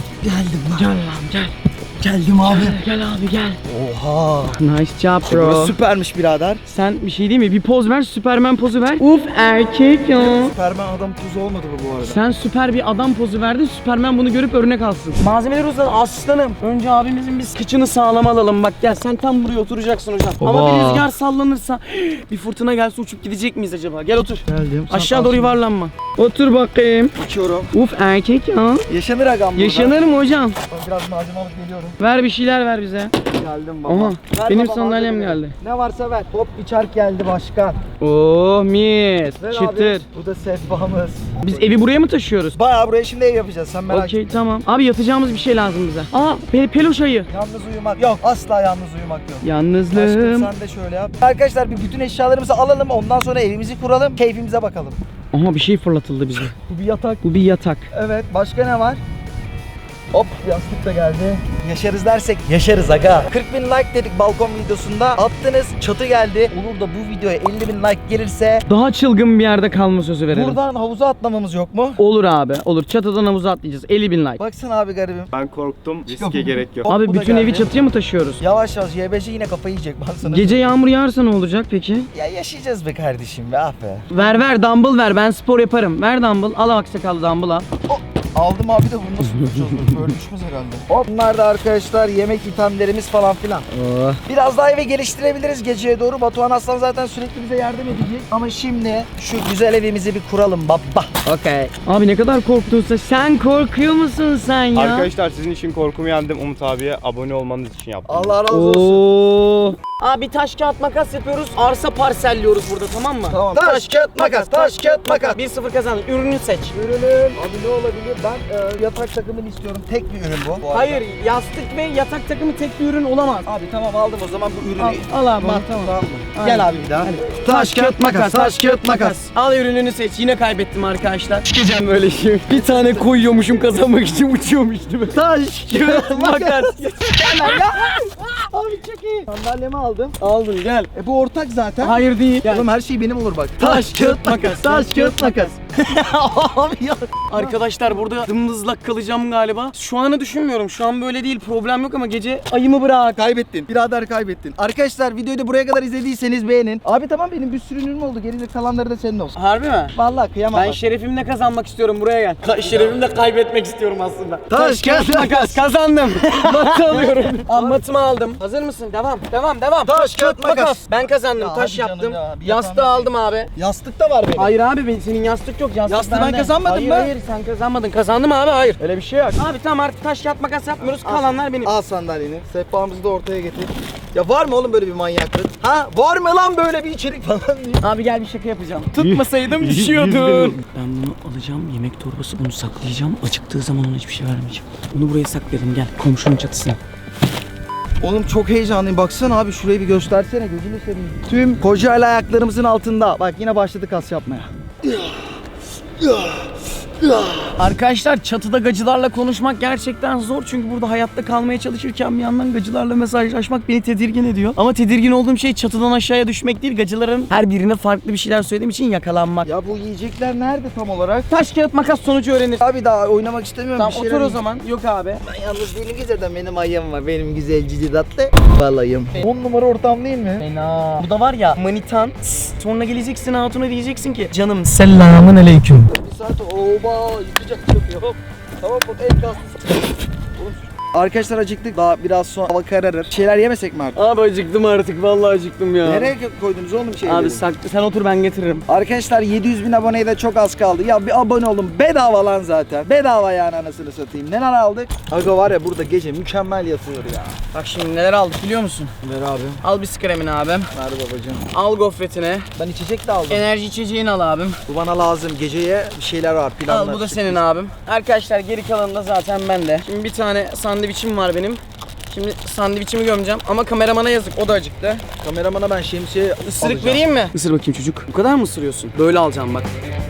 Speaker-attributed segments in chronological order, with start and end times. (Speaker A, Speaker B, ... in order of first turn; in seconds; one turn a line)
Speaker A: 0.2-0.9
Speaker B: 0.8-1.5
Speaker A: 2.0-2.8
Speaker B: 2.4-3.6
Speaker A: 3.7-4.6
Speaker B: 4.5-5.8
Speaker A: 5.3-6.6
Speaker B: 6.7-10.5
Speaker A: 10.1-12.2
Speaker B: 12.0-27.1
Speaker A: 20.4-21.1
Speaker A: 24.4-25.6
Speaker A: 27.2-27.7
Speaker B: 27.7-28.9
Speaker A: 28.9-30.0
Speaker B: 29.6-30.6
Speaker A: 30.7-32.0
Speaker B: 32.0-33.2
Speaker A: 33.3-37.8
Speaker B: 33.9-35.5
Speaker B: 38.0-40.1
Speaker A: 39.4-41.9
Speaker B: 41.4-42.6
Speaker A: 42.5-44.3
Speaker B: 43.9-47.3
Speaker A: 47.3-55.0
Speaker B: 49.4-50.5
Speaker B: 55.3-56.5
Speaker A: 56.5-57.2
Speaker B: 57.2-57.9
Speaker A: 57.9-59.0
Speaker A: 60.1-68.7
Speaker B: 68.7-70.6
Speaker A: 70.3-72.0
Speaker B: 72.0-74.4
Speaker A: 74.4-75.3
Speaker C: 75.3-76.9
Speaker A: 76.1-77.7
Speaker B: 76.9-78.4
Speaker A: 78.4-80.8
Speaker B: 80.2-82.1
Speaker A: 82.1-84.1
Speaker B: 84.1-87.7
Speaker A: 87.9-93.7
Speaker B: 93.7-94.2
Speaker A: 94.2-101.1
Speaker B: 101.2-105.1
Speaker C: 104.7-108.4
Speaker A: 108.1-109.1
Speaker B: 108.5-116.7
Speaker A: 113.3-115.4
Speaker A: 116.7-121.0
Speaker B: 120.7-123.5
Speaker A: 123.4-129.2
Speaker B: 124.8-138.2
Speaker A: 132.5-133.4
Speaker A: 135.1-140.2
Speaker B: 140.2-140.9
Speaker A: 140.9-147.6
Speaker B: 141.8-142.7
Speaker B: 143.6-145.6
Speaker B: 147.3-153.2
Speaker A: 153.0-159.4
Speaker B: 159.3-159.9
Speaker A: 159.9-160.8
Speaker B: 160.5-173.5
Speaker A: 164.5-165.6
Speaker A: 166.2-167.8
Speaker A: 169.8-174.5
Speaker B: 174.3-181.7
Speaker A: 175.9-177.1
Speaker A: 180.8-187.8
Speaker B: 187.8-196.8
Speaker C: 188.9-190.6
Speaker A: 198.0-205.3
Speaker A: 206.0-207.5
Speaker B: 207.6-219.5
Speaker A: 219.4-221.3
Speaker B: 221.3-222.6
Speaker A: 222.6-224.4
Speaker B: 223.8-225.2
Speaker A: 225.2-230.4
Speaker B: 230.4-235.9
Speaker A: 235.9-244.0
Speaker B: 243.9-246.1
Speaker A: 245.8-247.4
Speaker B: 247.0-248.7
Speaker A: 248.7-257.4
Speaker B: 257.5-258.9
Speaker A: 259.0-259.6
Speaker B: 259.6-260.7
Speaker A: 260.7-261.4
Speaker B: 261.5-262.5
Speaker A: 262.6-263.4
Speaker B: 263.3-264.6
Speaker A: 264.7-267.4
Speaker B: 266.7-275.0
Speaker A: 275.2-277.1
Speaker B: 276.4-279.7